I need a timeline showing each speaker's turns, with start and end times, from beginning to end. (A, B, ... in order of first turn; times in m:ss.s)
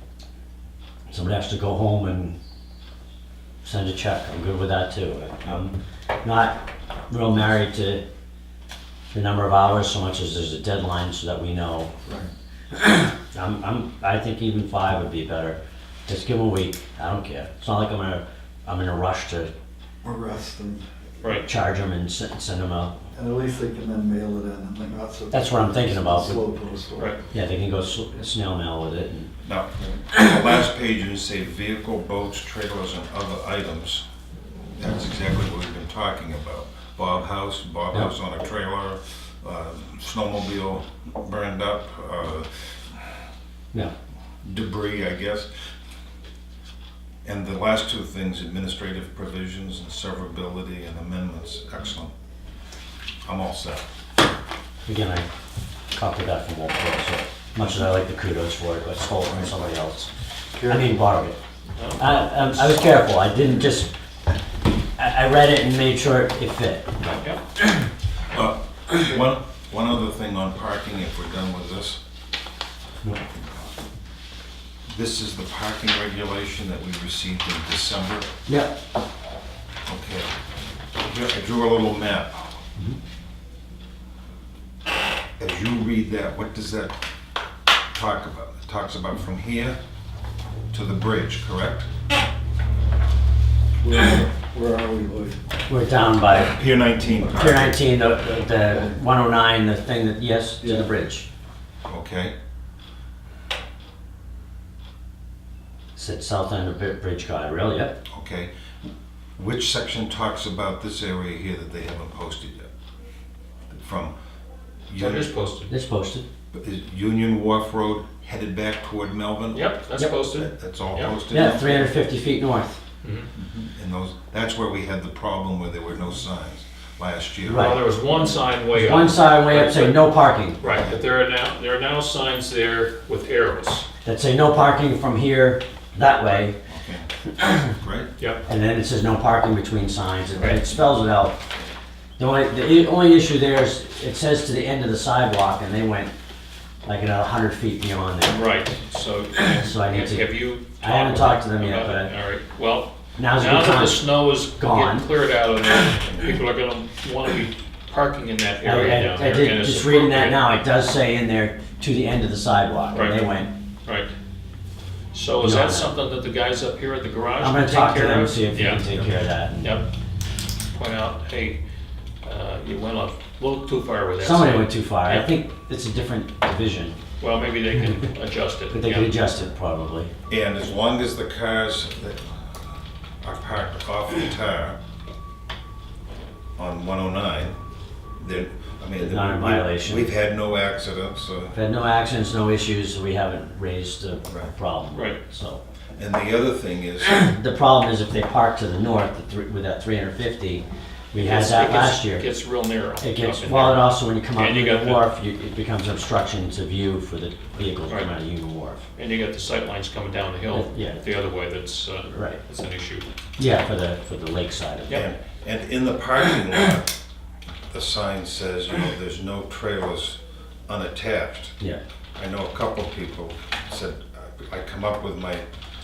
0:01.1-0:02.3 A
0:03.6-0:06.6 A
0:07.1-0:08.0 A
0:09.1-0:11.9 A
0:12.7-0:19.5 A
0:20.0-0:20.9 B
0:21.4-0:22.9 A
0:23.1-0:27.1 B
0:25.3-0:26.4 A
0:27.3-0:29.3 A
0:29.4-0:34.0 C
0:34.8-0:42.8 C
0:44.4-0:45.5 C
0:47.2-0:52.1 C
0:53.2-0:53.8 C
0:54.8-0:55.3 A
0:55.9-1:01.4 A
1:02.0-1:03.9 A
1:05.0-1:07.2 A
1:08.3-1:12.0 C
1:14.9-1:18.3 C
1:18.5-1:18.7 A
1:19.8-1:20.3 C
1:21.0-1:22.6 C
1:25.4-1:27.0 C
1:27.9-1:29.8 C
1:30.7-1:31.9 C
1:33.8-1:35.4 B
1:35.7-1:36.5 A
1:36.3-1:37.8 C
1:37.3-1:41.3 A
1:40.6-1:40.9 B
1:41.8-1:42.3 C
1:46.0-1:48.0 A
1:48.1-1:48.5 C
1:49.4-1:52.7 C
1:53.7-1:54.1 C
1:54.9-1:55.3 C
1:55.0-1:55.7 D
1:55.7-1:56.2 A
1:56.5-1:59.7 C
1:59.5-2:01.1 D
2:00.3-2:01.9 C
2:01.3-2:02.8 A
2:03.0-2:03.3 D
2:03.4-2:07.9 C
2:07.4-2:07.8 A
2:07.5-2:10.1 D
2:08.7-2:10.6 A
2:10.6-2:13.8 D
2:14.0-2:16.6 A
2:16.7-2:17.1 C
2:17.7-2:18.1 C
2:18.4-2:21.4 A
2:22.2-2:26.1 A
2:26.8-2:28.4 A
2:28.2-2:40.4 D
2:29.6-2:30.2 A
2:30.8-2:32.1 A
2:33.2-2:35.1 A
2:38.6-2:43.5 A
2:42.9-2:43.2 D
2:45.1-2:48.8 D
2:45.4-2:45.9 A
2:47.4-2:49.8 A
2:50.7-2:51.6 D
2:52.2-2:55.3 D
2:54.2-2:57.0 A
2:57.2-2:59.1 D
2:57.8-2:58.1 A
2:58.7-3:00.1 A
3:00.3-3:02.4 C
3:03.2-3:04.8 C
3:06.6-3:07.6 C
3:08.2-3:11.6 C
3:09.0-3:10.1 A
3:11.5-3:15.6 A
3:14.9-3:15.2 D
3:16.0-3:17.2 C
3:17.0-3:22.2 A
3:21.2-3:25.0 D
3:23.0-3:28.8 A
3:27.9-3:28.1 D
3:29.0-3:33.1 D
3:30.5-3:31.0 A
3:32.1-3:32.4 A
3:33.4-3:35.0 A
3:34.9-3:36.9 C
3:37.7-3:41.6 C
3:42.2-3:45.5 C